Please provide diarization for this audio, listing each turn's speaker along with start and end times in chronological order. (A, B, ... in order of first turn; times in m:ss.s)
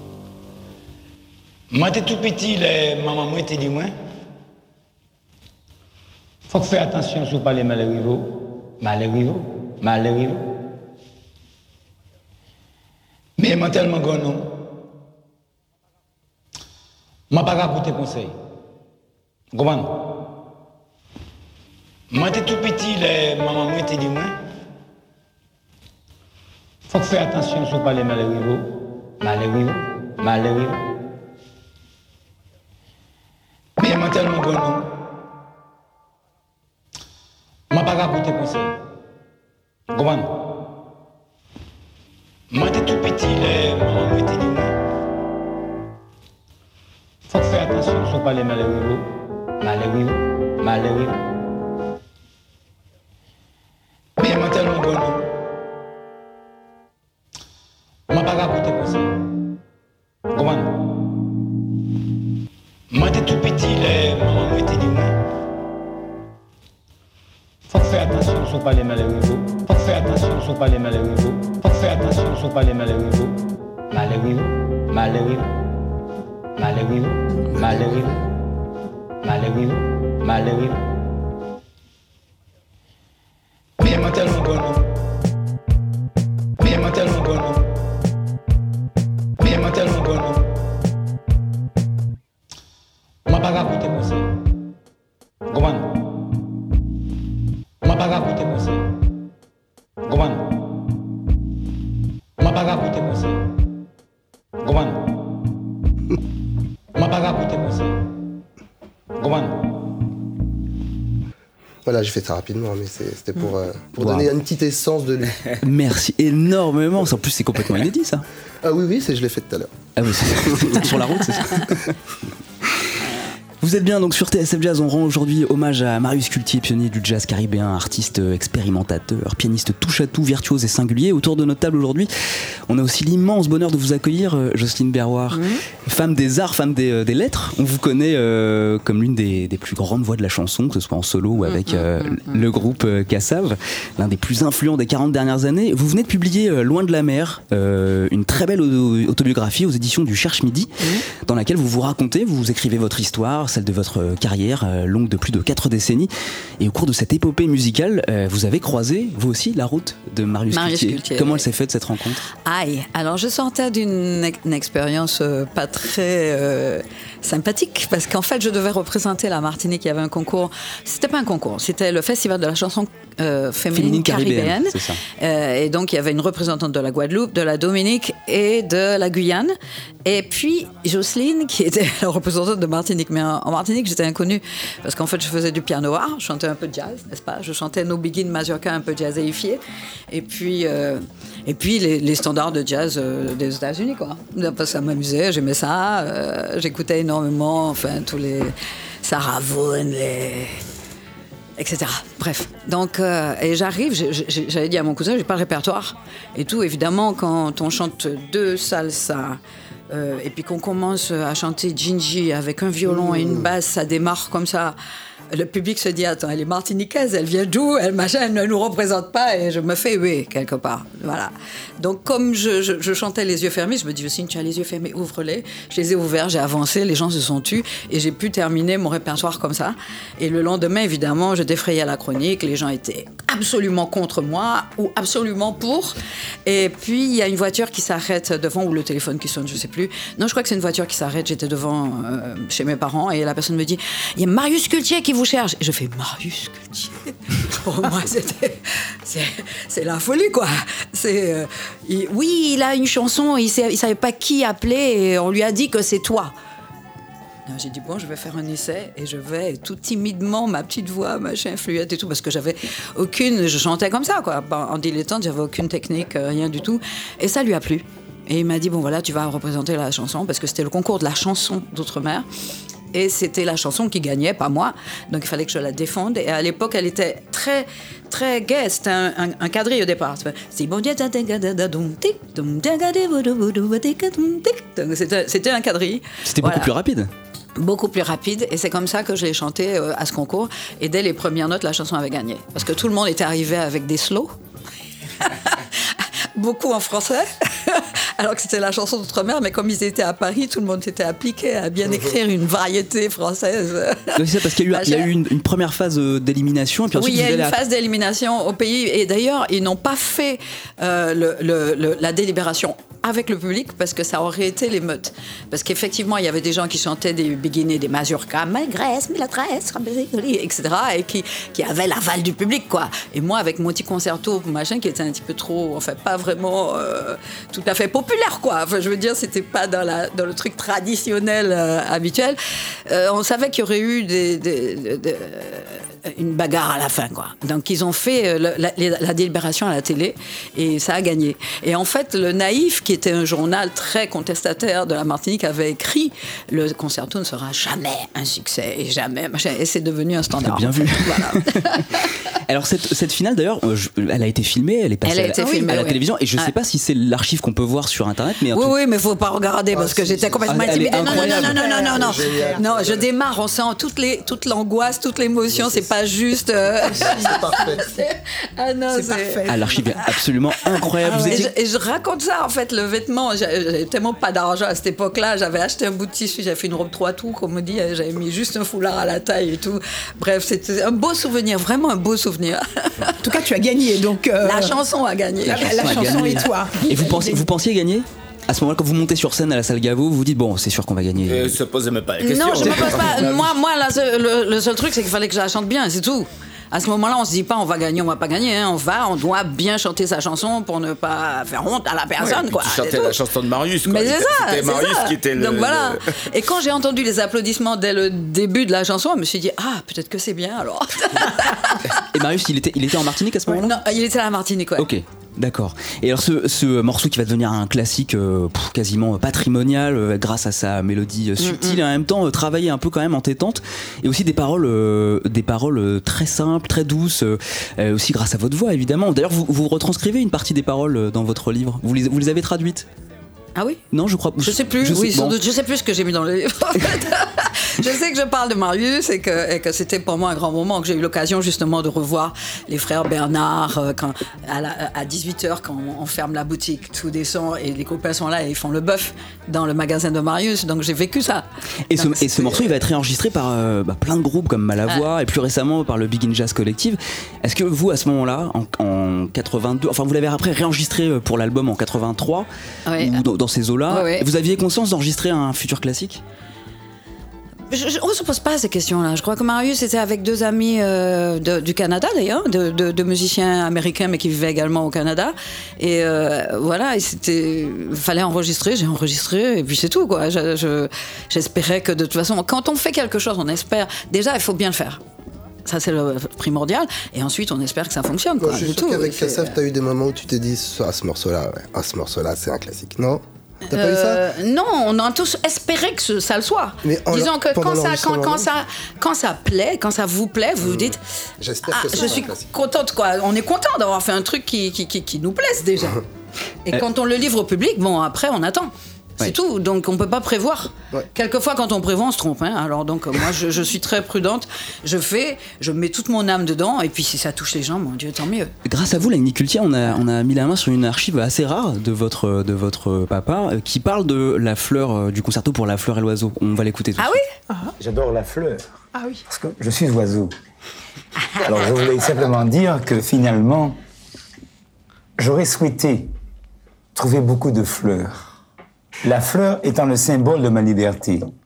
0:01.7-0:03.9 A
0:06.5-0:10.4 A
0:13.4-0:14.5 A
0:17.3-0:18.4 A
0:19.5-0:20.0 A
0:22.1-0:24.3 A
0:26.9-0:30.8 A
0:33.8-0:34.9 A
0:37.7-0:38.7 A
0:39.9-0:40.4 A
0:42.5-0:44.8 A
0:47.3-0:51.2 A
0:54.2-0:55.2 A
0:58.1-0:59.1 A
1:00.3-1:00.8 A
1:02.9-1:05.2 A
1:07.7-1:15.5 A
1:16.6-1:18.2 A
1:19.2-1:20.8 A
1:23.8-1:24.9 A
1:26.6-1:27.7 A
1:29.4-1:30.5 A
1:33.3-1:34.3 A
1:35.5-1:36.0 A
1:37.8-1:38.8 A
1:40.1-1:40.6 A
1:42.4-1:43.4 A
1:44.6-1:45.1 A
1:47.0-1:48.0 A
1:49.2-1:49.6 A
1:51.8-1:55.4 B
1:54.0-1:54.3 C
1:55.6-1:58.2 C
1:58.6-1:59.7 B
2:00.0-2:01.9 C
2:00.4-2:00.9 B
2:03.6-2:12.1 C
2:12.7-2:42.2 C
2:15.3-2:15.6 D
2:21.4-2:22.4 D
2:40.5-2:41.5 D
2:42.4-2:59.5 D
2:53.7-2:55.0 C
3:00.0-3:20.6 D
3:21.6-3:34.8 D
3:32.9-3:33.5 B
3:35.3-4:16.3 D
4:17.5-4:32.3 D
4:32.9-4:46.7 D
4:46.2-4:47.1 C
4:47.6-4:54.3 D
4:55.2-5:05.1 D
5:04.2-5:07.6 C
5:06.9-5:52.1 D
5:50.4-5:51.8 C
5:52.5-5:58.7 C
5:55.0-5:56.5 D
5:58.5-6:09.5 D
5:59.7-6:00.6 B
6:00.5-6:01.6 C
6:01.1-6:02.6 E
6:01.9-6:03.1 B
6:05.5-6:05.9 B
6:06.9-6:07.8 B
6:07.0-6:07.5 E
6:08.9-6:10.0 E
6:09.5-6:11.5 C
6:11.0-6:11.5 E
6:11.0-6:23.2 D
6:23.2-6:24.9 E
6:24.4-6:26.5 D
6:25.4-6:27.5 E
6:25.5-6:31.6 C
6:31.2-6:33.6 F
6:32.2-6:43.2 D
6:42.2-6:46.2 F
6:43.8-6:52.0 D
6:51.9-6:53.8 C
6:53.5-6:54.9 D
6:54.8-7:12.9 C
7:01.4-7:01.8 D
7:13.6-7:13.8 D
7:13.9-7:15.4 C
7:14.4-7:32.7 D
7:31.9-7:46.2 C
7:42.9-7:43.2 D
7:43.9-7:44.3 D
7:47.7-8:05.0 D
8:05.7-8:09.6 D
8:08.4-8:14.2 B
8:13.7-8:21.0 D
8:16.8-8:18.5 B
8:20.6-8:22.5 B
8:21.7-8:26.0 D
8:26.7-8:38.5 D
8:38.6-8:47.2 C
8:47.5-8:47.8 E
8:47.8-8:48.6 G
8:48.9-8:49.2 E
8:49.3-8:50.3 G
8:51.4-8:53.8 G
8:55.2-8:56.1 G
8:57.0-8:58.3 G
8:59.0-9:01.3 G